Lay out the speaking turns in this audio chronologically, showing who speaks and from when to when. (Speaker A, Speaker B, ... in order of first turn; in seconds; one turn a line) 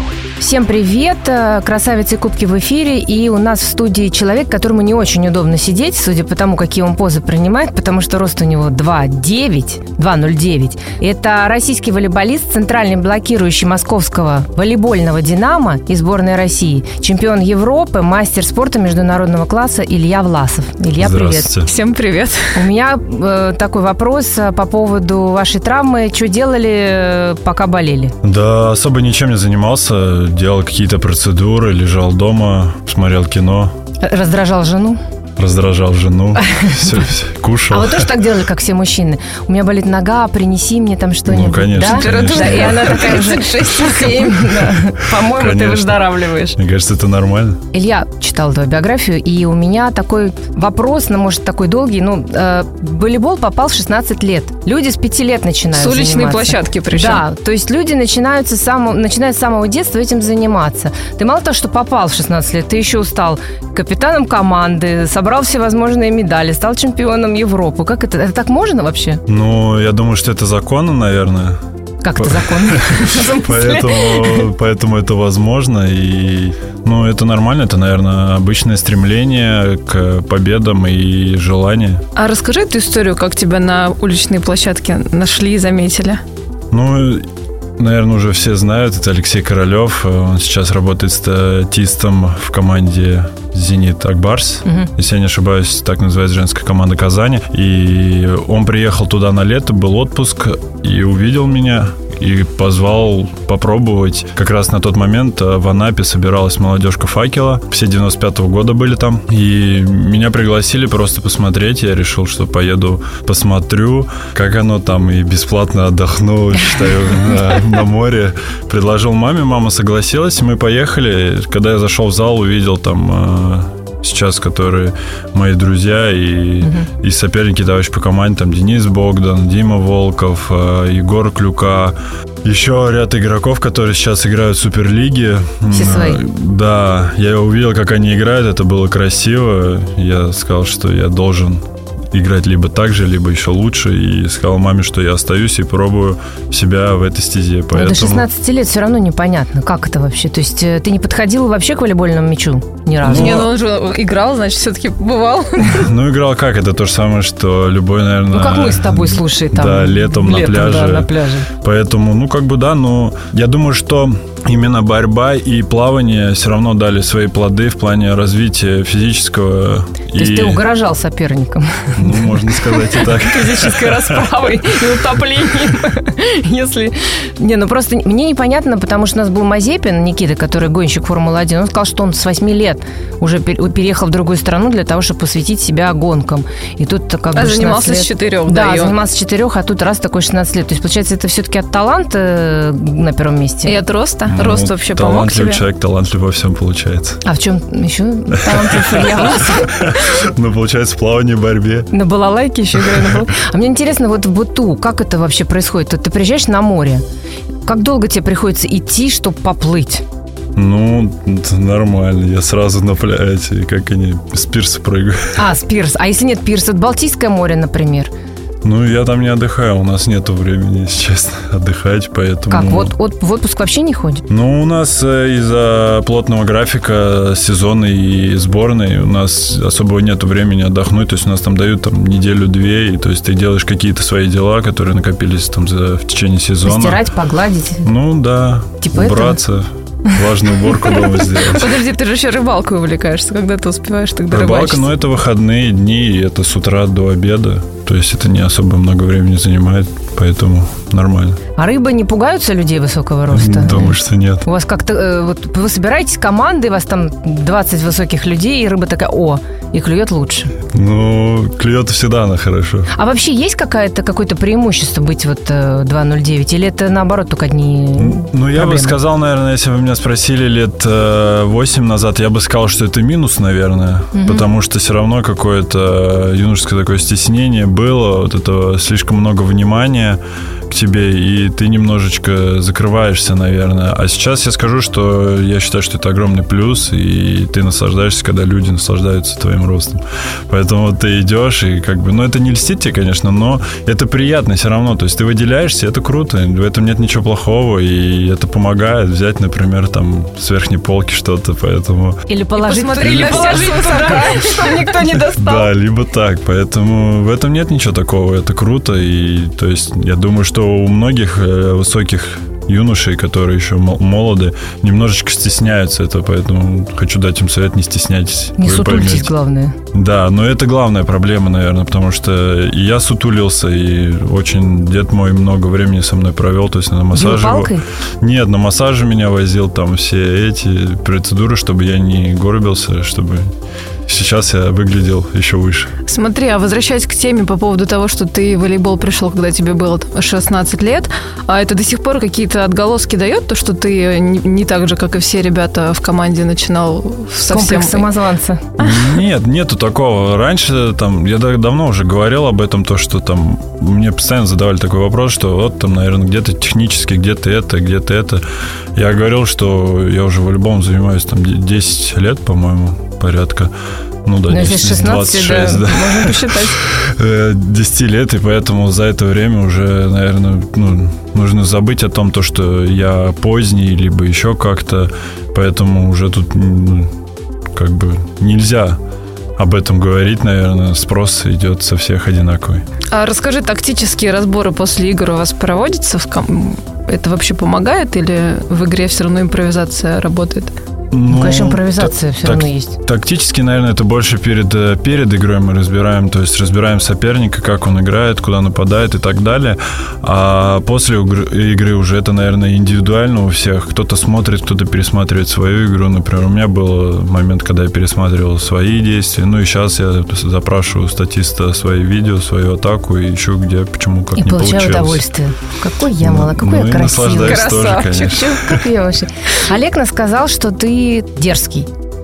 Speaker A: 0.4-21.5
Speaker B: 20.9-21.7
Speaker C: 21.6-22.6
Speaker A: 22.5-28.1
Speaker B: 28.2-33.7
Speaker A: 34.0-35.0
Speaker B: 35.4-38.1
Speaker A: 36.5-36.8
Speaker A: 37.7-46.6
Speaker B: 41.2-43.0
Speaker C: 41.8-44.4
Speaker B: 45.0-47.6
Speaker A: 47.7-69.2
Speaker C: 55.7-57.2
Speaker B: 69.3-71.6
Speaker A: 72.0-74.5
Speaker B: 72.2-82.0
Speaker C: 82.2-86.2
Speaker B: 86.7-87.3
Speaker B: 87.8-148.3
Speaker A: 126.6-126.9
Speaker A: 135.7-136.2
Speaker A: 147.7-153.5
Speaker B: 153.0-153.5
Speaker C: 153.1-155.9
Speaker B: 155.6-170.7
Speaker A: 158.3-161.5
Speaker A: 170.1-193.8
Speaker B: 172.0-174.2
Speaker C: 187.3-189.0
Speaker C: 193.7-195.6
Speaker B: 194.2-197.2
Speaker A: 197.2-199.9
Speaker B: 198.3-201.9
Speaker A: 201.9-207.0
Speaker B: 202.9-203.2
Speaker A: 207.6-210.0
Speaker B: 210.6-215.4
Speaker A: 215.3-218.1
Speaker B: 218.6-222.9
Speaker A: 222.5-224.2
Speaker B: 224.3-237.0
Speaker A: 236.6-237.9
Speaker B: 237.8-241.8
Speaker A: 238.8-239.4
Speaker C: 241.3-244.9
Speaker B: 244.3-251.4
Speaker A: 251.6-260.5
Speaker B: 253.3-254.4
Speaker B: 260.7-262.9
Speaker A: 262.9-269.0
Speaker B: 268.0-302.3
Speaker A: 274.1-274.4
Speaker A: 302.3-305.7
Speaker C: 302.6-304.9
Speaker B: 303.0-319.3
Speaker A: 318.6-319.8
Speaker B: 319.9-333.5
Speaker A: 327.1-327.8
Speaker B: 334.1-335.9
Speaker C: 336.1-348.1
Speaker A: 347.5-348.7
Speaker C: 348.8-349.2
Speaker B: 348.8-358.4
Speaker B: 358.9-363.7
Speaker B: 364.2-377.1
Speaker A: 364.5-366.8
Speaker B: 377.7-379.0
Speaker B: 379.6-382.8
Speaker C: 383.1-390.7
Speaker B: 391.1-415.2
Speaker A: 391.3-393.0
Speaker A: 414.4-421.9
Speaker B: 416.2-418.8
Speaker C: 417.4-418.4